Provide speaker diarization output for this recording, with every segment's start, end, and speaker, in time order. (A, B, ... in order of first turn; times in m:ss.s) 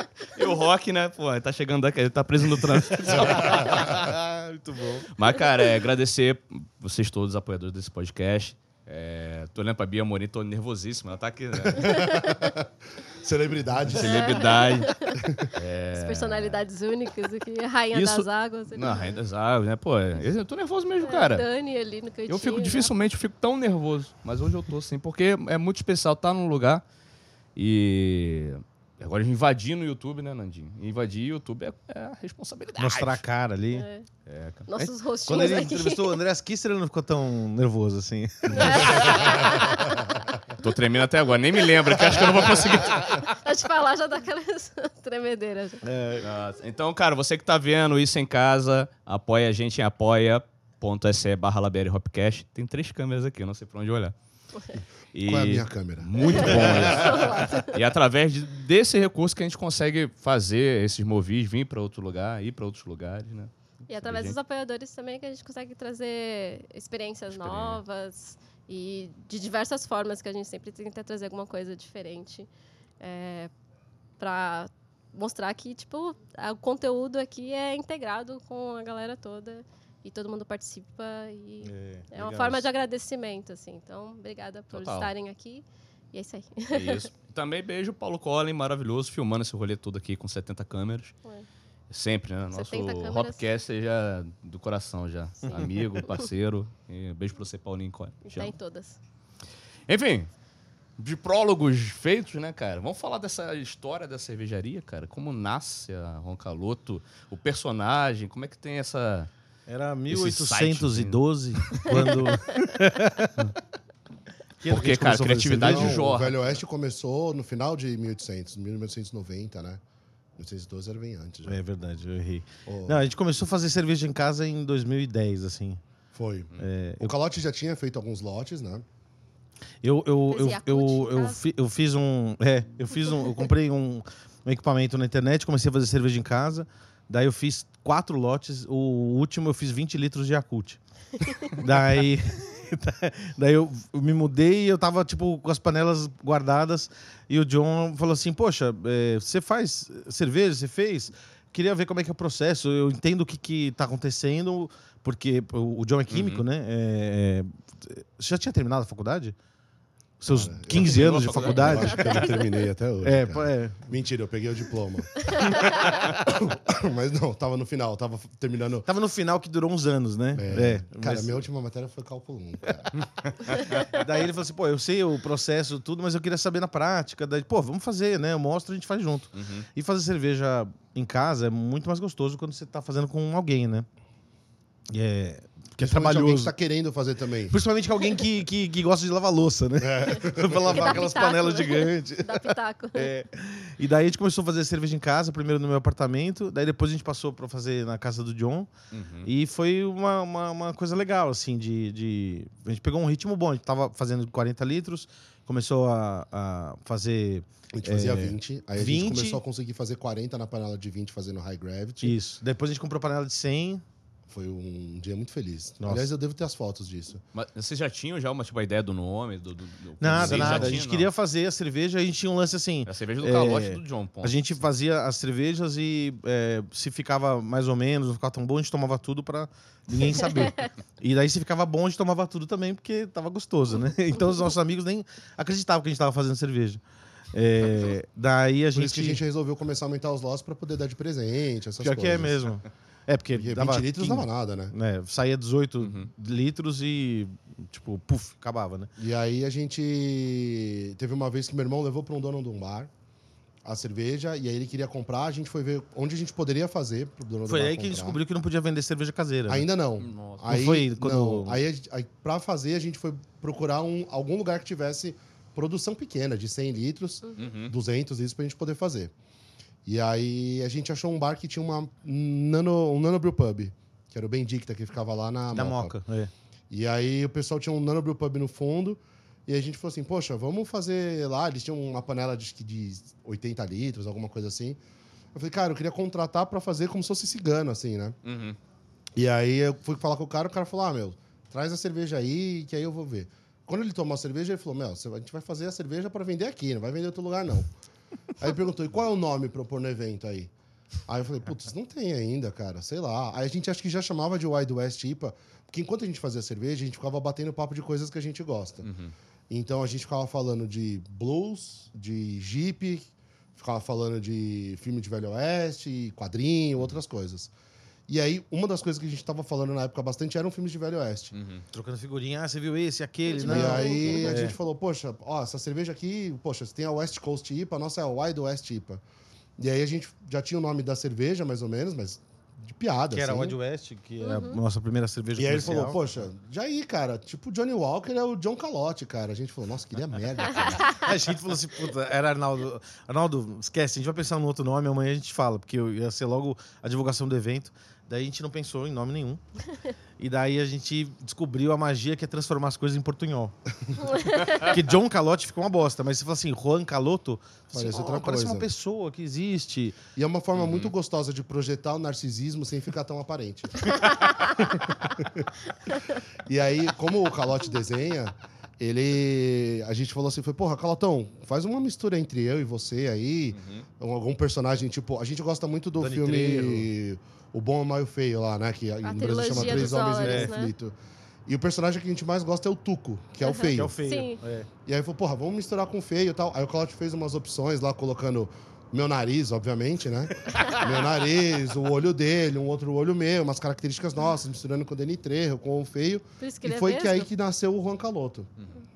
0:00.3-0:03.9 A
0:03.1-0:03.9 B
0:03.2-0:05.1 C
0:05.1-0:12.0 A
0:11.7-0:12.7 B
0:11.9-0:12.3 D
0:13.2-0:14.5 B
0:13.8-0:14.9 A
0:14.0-0:19.1 D
0:15.2-0:15.5 B
0:15.5-0:16.6 A
0:17.9-0:21.5 A
0:21.0-0:22.9 D
0:22.3-0:26.8 A
0:27.6-0:33.2 A
0:32.8-0:33.8 C
0:33.7-0:34.0 D
0:34.3-0:34.7 A
0:34.7-0:36.1 D
0:34.8-0:39.2 C
0:38.5-0:40.0 D
0:38.6-0:39.3 A
0:40.6-0:43.2 A
0:42.9-0:45.8 D
0:45.8-0:46.3 C
0:46.2-0:54.1 A
0:55.1-1:04.4 A
0:55.2-0:57.4 B
0:56.4-0:57.8 D
1:03.9-1:12.5 D
1:07.3-1:07.8 A
1:13.0-1:13.5 D
1:14.2-1:27.0 D
1:21.6-1:22.7 C
1:24.7-1:25.1 A
1:26.7-1:31.2 A
1:31.9-1:38.5 A
1:32.5-1:33.4 D
1:35.4-1:36.2 D
1:38.2-1:39.0 D
1:39.9-1:40.3 A
1:41.0-1:49.3 A
1:49.7-1:53.3 C
1:50.1-1:52.2 A
1:54.6-1:56.0 C
1:54.7-1:56.4 A
1:55.3-1:59.8 B
2:00.4-2:01.6 B
2:01.4-2:05.8 C
2:02.6-2:03.0 B
2:06.1-2:08.8 B
2:06.6-2:07.1 C
2:09.8-2:20.8 C
2:10.3-2:11.4 D
2:21.5-2:39.3 C
2:36.1-2:36.4 A
2:40.2-2:42.3 C
2:40.2-2:48.9 B
2:40.7-2:42.2 A
2:43.0-2:43.8 C
2:48.8-2:51.4 C
2:50.3-2:52.9 B
2:53.2-2:53.8 A
2:53.8-3:03.9 C
2:59.3-2:59.6 A
3:04.9-3:06.5 C
3:05.8-3:07.6 B
3:07.5-3:18.7 C
3:09.8-3:11.1 B
3:10.7-3:13.1 D
3:18.9-3:19.3 A
3:19.2-3:29.4 C
3:27.7-3:32.2 B
3:32.0-3:33.8 C
3:34.3-3:37.2 B
3:35.8-3:36.1 C
3:37.3-3:41.1 A
3:40.0-3:56.8 C
3:40.1-3:40.8 B
3:42.8-3:44.4 A
3:50.3-3:50.6 D
3:57.3-3:59.2 C
3:58.7-4:02.4 B
4:01.8-4:08.9 C
4:03.3-4:04.7 B
4:05.8-4:06.1 A
4:09.0-4:12.9 B
4:13.6-4:18.2 B
4:17.4-4:19.7 C
4:19.5-4:29.1 B
4:20.0-4:20.4 A
4:20.4-4:21.6 C
4:27.4-4:27.7 A
4:29.8-4:36.0 B
4:35.5-4:36.3 C
4:36.7-4:44.8 B
4:45.3-4:48.2 B
4:48.2-4:48.6 A
4:49.2-4:57.7 B
4:58.4-5:00.5 B
5:01.1-5:08.9 B
5:08.8-5:09.1 A
5:09.5-5:17.5 B
5:18.1-5:21.3 B
5:21.3-5:21.6 A
5:21.7-5:24.5 C
5:23.3-5:24.3 D
5:23.4-5:29.0 B
5:29.6-5:33.6 B
5:33.1-5:36.2 C
5:34.2-5:34.6 D
5:35.4-5:40.9 B
5:40.9-5:49.4 C
5:50.2-5:53.5 C
5:54.0-5:54.6 D
5:54.6-6:00.0 C
5:57.7-5:58.7 B
6:00.1-6:05.5 B
6:00.6-6:00.9 A
6:06.4-6:20.9 B
6:13.5-6:13.9 A
6:16.0-6:16.9 C
6:19.0-6:20.7 D
6:19.5-6:20.5 C
6:21.4-6:23.9 B
6:23.4-6:24.4 D
6:23.7-6:24.7 C
6:24.8-6:38.5 B
6:30.5-6:30.8 D
6:36.4-6:37.3 D